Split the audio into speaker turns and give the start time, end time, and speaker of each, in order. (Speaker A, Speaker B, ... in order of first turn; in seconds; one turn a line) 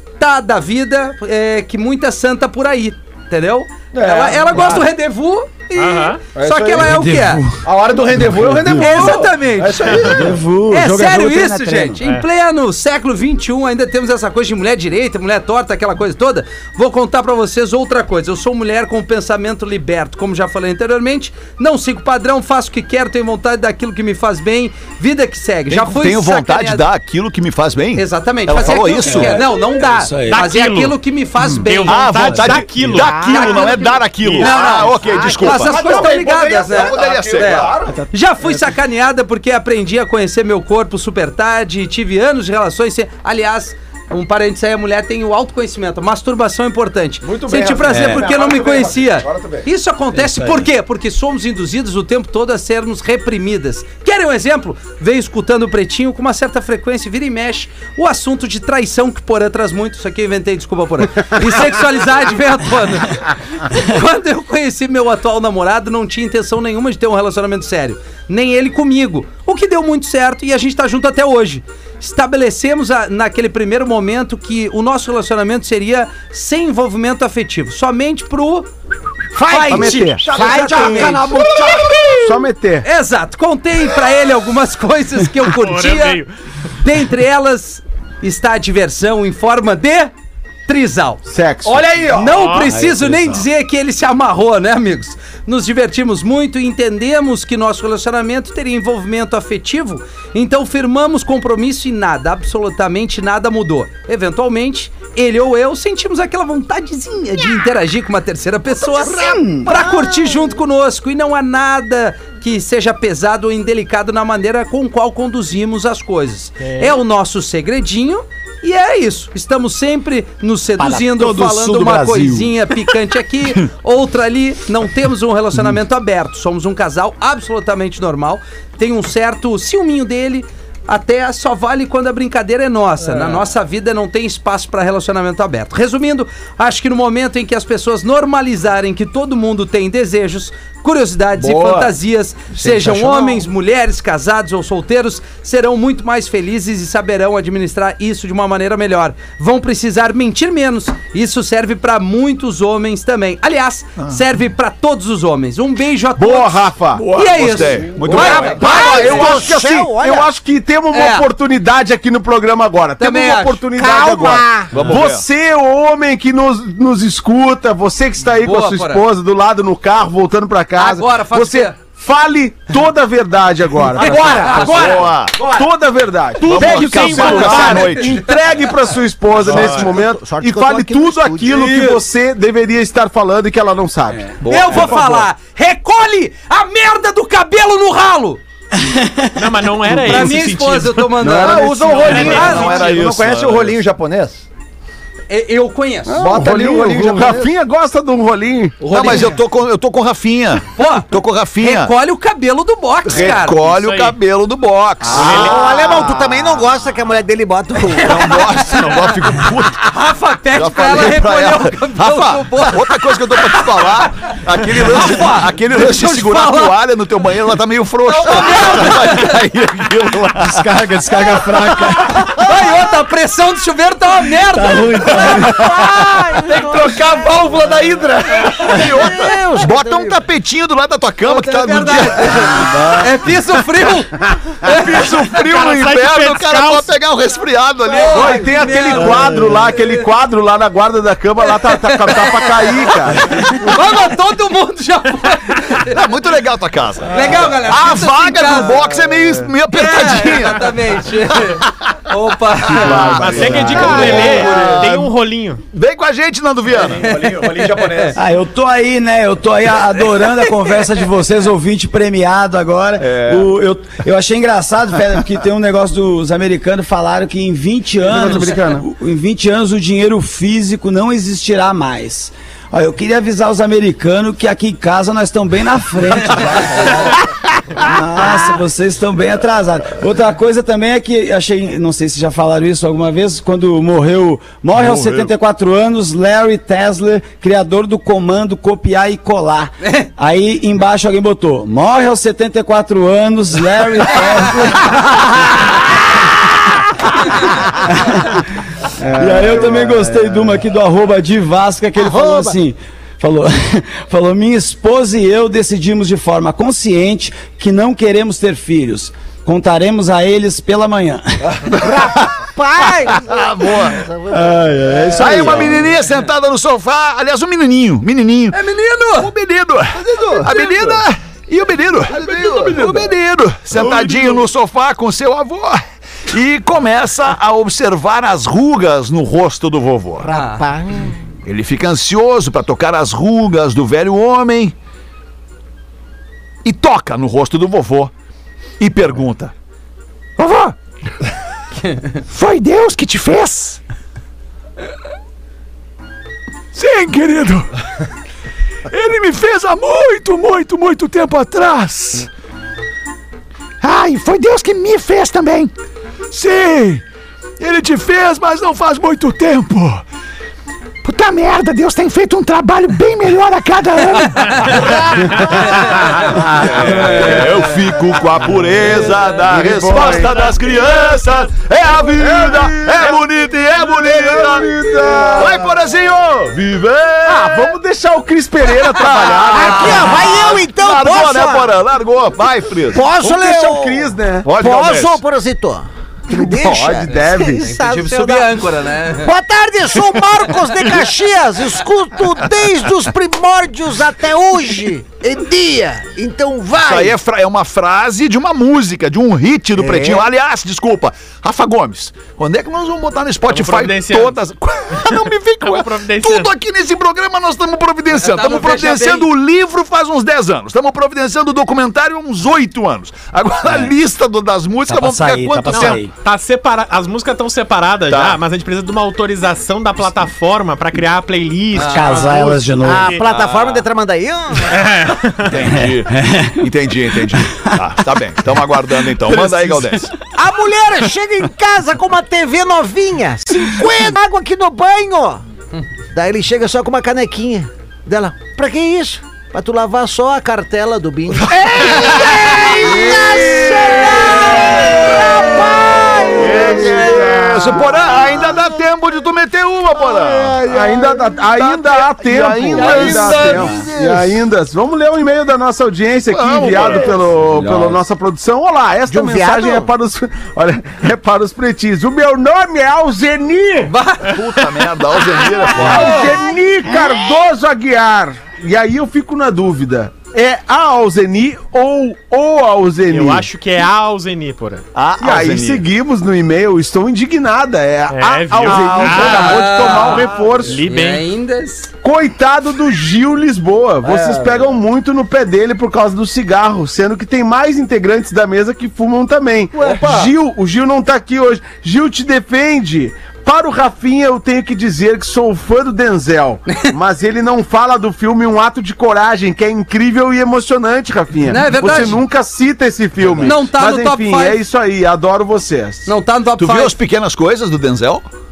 Speaker A: 0.2-7.5
Speaker B: 3.9-4.9
Speaker C: 5.7-6.2
Speaker B: 6.3-7.0
Speaker D: 6.8-7.6
Speaker B: 7.6-10.4
Speaker D: 8.2-9.2
Speaker A: 8.8-26.9
Speaker D: 10.0-12.0
Speaker E: 25.7-29.4
Speaker A: 28.0-32.1
Speaker D: 29.1-30.5
Speaker C: 30.3-31.0
Speaker C: 31.6-33.5
Speaker E: 31.9-37.8
Speaker F: 32.9-34.0
Speaker A: 34.4-78.7
Speaker F: 35.0-35.4
Speaker B: 35.0-38.0
Speaker B: 47.2-49.7
Speaker D: 50.1-50.7
Speaker A: 79.4-81.4
Speaker G: 79.5-82.9
Speaker F: 79.7-81.1
Speaker B: 79.7-81.9
Speaker A: 82.8-86.2
Speaker C: 85.4-86.3
Speaker A: 86.8-90.1
Speaker A: 90.7-91.2
Speaker G: 91.3-91.9
Speaker B: 91.6-92.4
Speaker A: 92.0-159.5
Speaker C: 92.3-92.7
Speaker D: 92.6-93.5
Speaker D: 108.9-109.8
Speaker F: 109.7-110.2
Speaker D: 120.8-122.6
Speaker B: 133.0-133.5
Speaker B: 141.3-141.9
Speaker B: 142.6-143.4
Speaker G: 156.2-157.1
Speaker E: 156.9-158.7
Speaker G: 158.0-184.4
Speaker F: 158.1-160.3
Speaker A: 160.9-161.3
Speaker A: 163.0-163.7
Speaker F: 163.8-164.8
Speaker E: 164.7-165.2
Speaker A: 168.3-169.1
Speaker A: 170.8-171.8
Speaker B: 173.9-175.7
Speaker A: 174.0-175.1
Speaker E: 174.6-175.4
Speaker C: 176.4-178.1
Speaker E: 176.4-178.2
Speaker A: 177.2-177.9
Speaker F: 179.4-181.9
Speaker E: 184.4-185.3
Speaker A: 184.5-188.4
Speaker D: 188.8-189.4
Speaker C: 189.3-191.2
Speaker A: 190.0-192.9
Speaker G: 191.2-192.2
Speaker B: 191.2-194.5
Speaker C: 192.0-192.9
Speaker E: 192.1-193.8
Speaker A: 195.3-196.2
Speaker G: 196.1-198.9
Speaker B: 196.2-197.5
Speaker B: 198.8-199.4
Speaker E: 198.9-201.9
Speaker A: 199.0-199.2
Speaker A: 200.8-203.6
Speaker E: 203.1-205.6
Speaker C: 203.6-204.2
Speaker G: 205.1-206.4
Speaker C: 205.1-205.7
Speaker F: 205.1-208.6
Speaker E: 207.9-209.9
Speaker A: 208.0-208.8
Speaker A: 209.8-214.0
Speaker E: 210.5-220.8
Speaker A: 214.6-216.8
Speaker A: 218.1-219.4
Speaker D: 220.4-222.5
Speaker A: 222.1-225.5
Speaker D: 224.5-226.1
Speaker F: 225.1-227.4
Speaker B: 226.5-228.8
Speaker F: 228.3-230.2
Speaker E: 228.6-232.7
Speaker A: 231.2-235.4
Speaker D: 232.6-233.1
Speaker E: 234.6-238.4
Speaker C: 235.3-236.9
Speaker A: 237.8-240.1
Speaker G: 238.1-243.3
Speaker A: 241.4-246.0
Speaker E: 245.8-251.7
Speaker A: 247.1-248.8
Speaker A: 249.7-254.9
Speaker E: 252.7-255.1
Speaker G: 252.7-254.2
Speaker C: 253.2-255.6
Speaker E: 255.7-257.2
Speaker B: 256.7-258.2
Speaker A: 256.9-258.2
Speaker D: 258.2-277.2
Speaker A: 260.2-260.7
Speaker E: 263.0-263.5
Speaker G: 268.1-268.9
Speaker D: 277.8-295.7
Speaker E: 284.8-285.3
Speaker A: 289.8-290.1
Speaker D: 297.8-298.4
Speaker G: 299.0-300.6
Speaker D: 299.1-311.5
Speaker F: 302.0-302.6
Speaker B: 311.4-311.8
Speaker F: 311.8-314.6
Speaker E: 313.1-314.0
Speaker D: 314.3-315.8
Speaker G: 314.9-315.8
Speaker E: 315.2-318.6
Speaker B: 315.4-315.7
Speaker A: 318.5-319.3
Speaker E: 319.2-330.3
Speaker B: 320.0-320.8
Speaker B: 322.5-323.1
Speaker G: 323.8-324.4
Speaker F: 330.2-331.2
Speaker A: 330.3-330.7
Speaker E: 331.4-334.8
Speaker E: 336.6-338.1
Speaker E: 338.8-339.5
Speaker E: 340.4-340.8
Speaker E: 342.3-343.8
Speaker E: 346.7-347.7
Speaker E: 348.9-352.3
Speaker E: 353.8-355.7
Speaker E: 356.3-357.0
Speaker E: 357.6-360.0
Speaker E: 361.0-377.8
Speaker A: 364.2-365.0
Speaker A: 365.6-367.4
Speaker G: 366.6-367.5
Speaker G: 368.9-370.8
Speaker G: 372.1-373.3
Speaker G: 373.8-375.8
Speaker G: 377.2-380.3
Speaker E: 378.9-383.0
Speaker F: 379.5-381.8
Speaker A: 379.6-380.0
Speaker F: 382.9-388.5
Speaker G: 383.1-384.5
Speaker E: 384.4-385.2
Speaker G: 386.3-387.7
Speaker A: 387.6-389.3
Speaker F: 389.2-397.2
Speaker E: 390.8-391.1
Speaker E: 396.8-416.0
Speaker F: 399.8-400.3
Speaker C: 403.5-404.4
Speaker C: 404.9-406.5
Speaker A: 408.1-409.3
Speaker D: 413.6-413.9
Speaker D: 414.9-416.1
Speaker C: 415.7-423.2
Speaker E: 418.1-418.4
Speaker D: 421.8-423.1
Speaker E: 422.2-422.6
Speaker F: 422.8-424.9
Speaker E: 423.2-423.8
Speaker C: 424.7-425.6
Speaker E: 425.4-430.1
Speaker D: 425.7-426.6
Speaker D: 427.5-427.8
Speaker B: 429.4-429.6
Speaker F: 430.3-435.4
Speaker F: 436.1-448.7
Speaker E: 441.6-444.3
Speaker A: 441.9-442.9
Speaker G: 443.1-448.0
Speaker A: 444.1-444.5
Speaker E: 446.4-453.9
Speaker F: 449.9-451.0
Speaker G: 450.6-463.9
Speaker F: 452.6-454.4
Speaker E: 456.3-457.7
Speaker F: 457.5-458.0
Speaker F: 459.1-459.9
Speaker A: 463.9-464.4
Speaker E: 464.2-466.4
Speaker G: 465.7-473.5
Speaker C: 473.1-474.9
Speaker E: 474.9-475.9
Speaker G: 475.2-480.8
Speaker C: 478.1-481.3
Speaker A: 479.0-481.9
Speaker G: 482.0-506.1
Speaker B: 484.0-484.8
Speaker B: 489.7-490.3
Speaker A: 501.5-502.2
Speaker E: 503.3-503.6
Speaker A: 503.4-504.6
Speaker A: 506.1-507.0
Speaker E: 506.6-508.3